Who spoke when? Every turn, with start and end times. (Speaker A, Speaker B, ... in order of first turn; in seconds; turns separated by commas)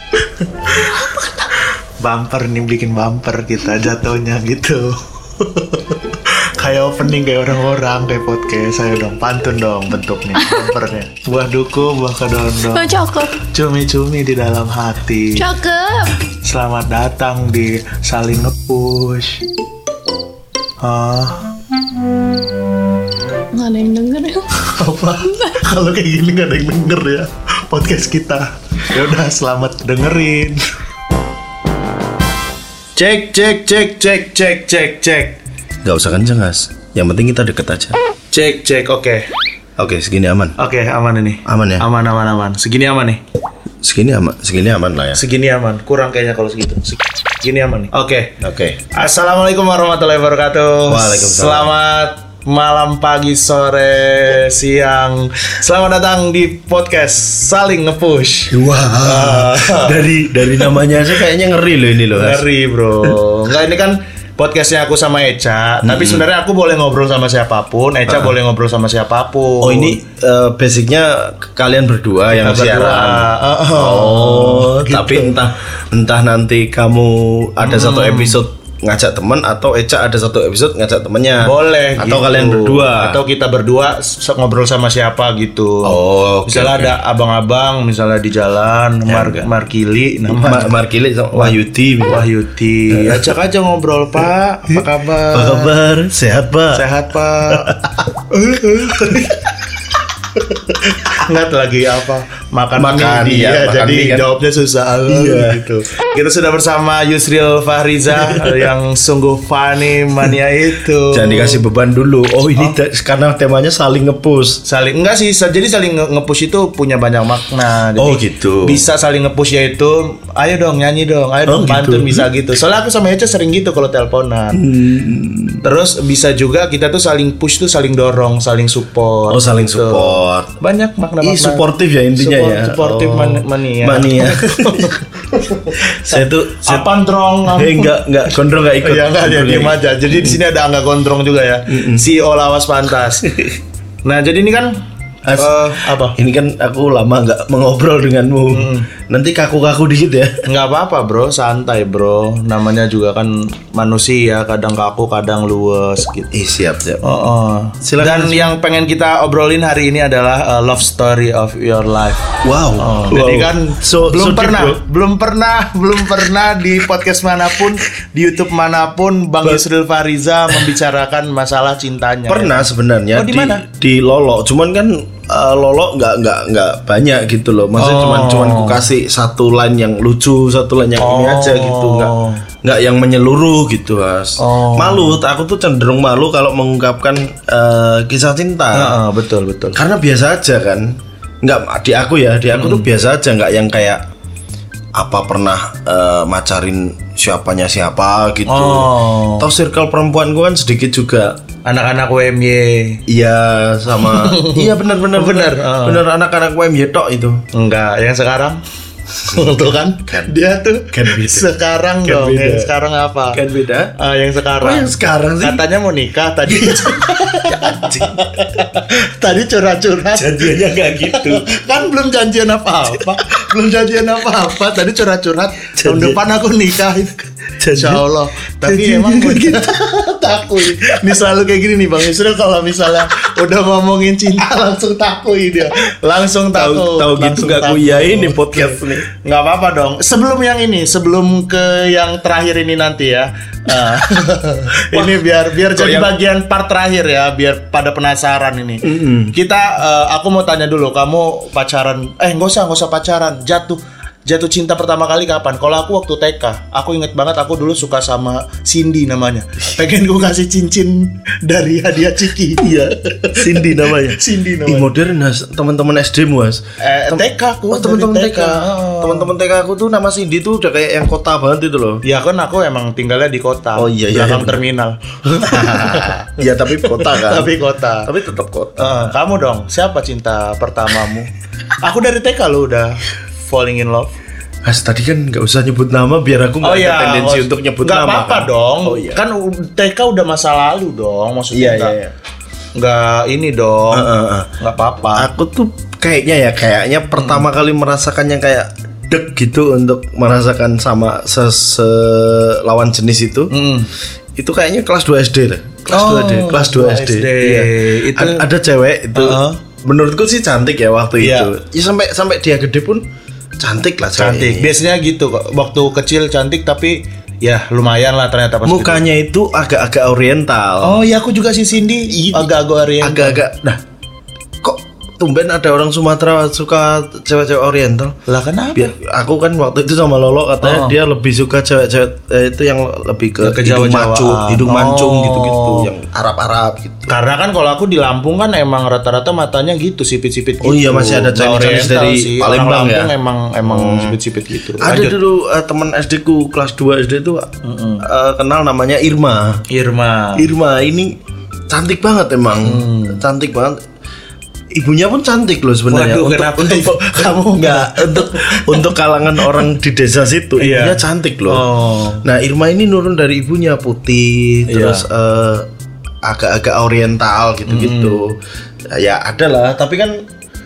Speaker A: 0.6-1.3, Speaker A: 2.0-15.4, Speaker B: 12.6-13.4, Speaker B: 15.3-16.2, Speaker A: 16.4-19.5, Speaker A: 20.8-21.5, Speaker B: 23.5-24.5, Speaker A: 24.6-30.6, Speaker A: 33.0-35.4, Speaker C: 35.8-38.0, Speaker A: 38.3-39.2, Speaker C: 39.8-40.6, Speaker A: 40.6-43.2, Speaker C: 41.4-41.9, Speaker C: 43.8-45.2, Speaker A: 45.1-48.4, Speaker C: 48.4-48.8, Speaker A: 48.9-60.8, Speaker C: 50.9-51.7, Speaker C: 58.5-62.4, Speaker A: 62.1-70.0, Speaker C: 65.8-66.2, Speaker C: 68.1-68.3, Speaker C: 69.6-83.2, Speaker A: 72.3-75.3, Speaker A: 77.6-78.4, Speaker A: 81.4-90.7, Speaker C: 85.8-87.0, Speaker C: 89.1-89.5, Speaker C: 90.3-92.3, Speaker A: 91.3-95.7, Speaker C: 92.9-93.3, Speaker C: 94.7-96.8, Speaker A: 96.7-99.7, Speaker C: 97.5-97.8, Speaker C: 98.8-99.3, Speaker A: 100.6-111.6, Speaker C: 102.7-104.3, Speaker C: 105.1-105.6, Speaker C: 108.1-108.7, Speaker C: 111.1-114.6, Speaker A: 114.7-124.6, Speaker C: 118.0-118.8, Speaker C: 121.5-122.3, Speaker C: 124.5-125.6, Speaker A: 125.6-131.6, Speaker C: 129.3-130.6, Speaker C: 131.2-135.0, Speaker A: 132.2-138.0, Speaker C: 135.8-136.9, Speaker C: 137.4-140.4, Speaker A: 138.8-143.3, Speaker C: 141.7-142.0, Speaker C: 143.2-143.6, Speaker A: 144.0-144.7, Speaker C: 145.2-150.4, Speaker A: 145.3-146.2, Speaker A: 148.5-148.9, Speaker A: 150.4-156.3, Speaker C: 156.3-157.0, Speaker A: 157.0-173.6, Speaker C: 157.8-158.5, Speaker C: 162.4-164.8, Speaker C: 172.3-189.0, Speaker A: 177.8-178.8, Speaker A: 181.0-182.4, Speaker A: 184.4-185.2, Speaker A: 188.7-189.8, Speaker C: 189.7-194.0, Speaker A: 192.5-192.9, Speaker C: 194.9-201.4, Speaker A: 198.5-199.5, Speaker A: 201.7-203.0, Speaker C: 203.1-207.4, Speaker A: 203.9-206.0, Speaker A: 207.5-208.6, Speaker C: 209.2-209.5, Speaker A: 209.3-213.4, Speaker C: 210.1-210.3, Speaker C: 210.9-211.5, Speaker C: 212.0-212.7, Speaker C: 213.3-213.9, Speaker A: 214.0-264.9, Speaker C: 214.6-215.6, Speaker C: 216.5-218.7, Speaker C: 220.1-221.4, Speaker C: 225.8-226.2, Speaker C: 227.6-228.0, Speaker C: 228.6-229.6, Speaker C: 230.7-231.0, Speaker C: 236.5-239.1, Speaker C: 244.8-246.1, Speaker C: 248.8-249.3, Speaker C: 262.6-272.0, Speaker A: 266.8-269.3, Speaker A: 272.0-278.1, Speaker C: 273.8-274.6, Speaker C: 275.4-279.1, Speaker A: 278.8-284.1, Speaker C: 284.6-289.2, Speaker A: 286.6-291.9, Speaker C: 291.5-292.1, Speaker A: 292.8-295.3, Speaker C: 293.9-294.5, Speaker C: 295.1-303.5, Speaker A: 297.2-297.4, Speaker A: 303.5-303.9, Speaker C: 304.4-313.0, Speaker A: 305.9-308.4, Speaker A: 309.1-309.6, Speaker A: 311.2-311.5, Speaker C: 313.6-314.7, Speaker A: 314.2-319.1, Speaker C: 318.6-321.0, Speaker A: 320.8-323.4, Speaker C: 323.0-323.8, Speaker C: 324.6-328.1, Speaker A: 328.3-328.9, Speaker C: 328.7-337.1, Speaker A: 330.6-330.9, Speaker A: 333.4-335.9, Speaker A: 337.1-345.2, Speaker C: 340.6-344.2, Speaker C: 344.8-349.6, Speaker A: 347.6-348.0, Speaker A: 349.7-350.5, Speaker C: 350.4-351.1, Speaker C: 351.7-353.8, Speaker A: 352.6-353.2, Speaker C: 354.7-361.6, Speaker A: 355.9-358.8, Speaker A: 359.4-359.6, Speaker A: 360.6-362.2, Speaker C: 362.2-365.7, Speaker A: 364.7-365.0, Speaker C: 366.2-368.4, Speaker A: 367.7-368.2, Speaker C: 368.9-370.2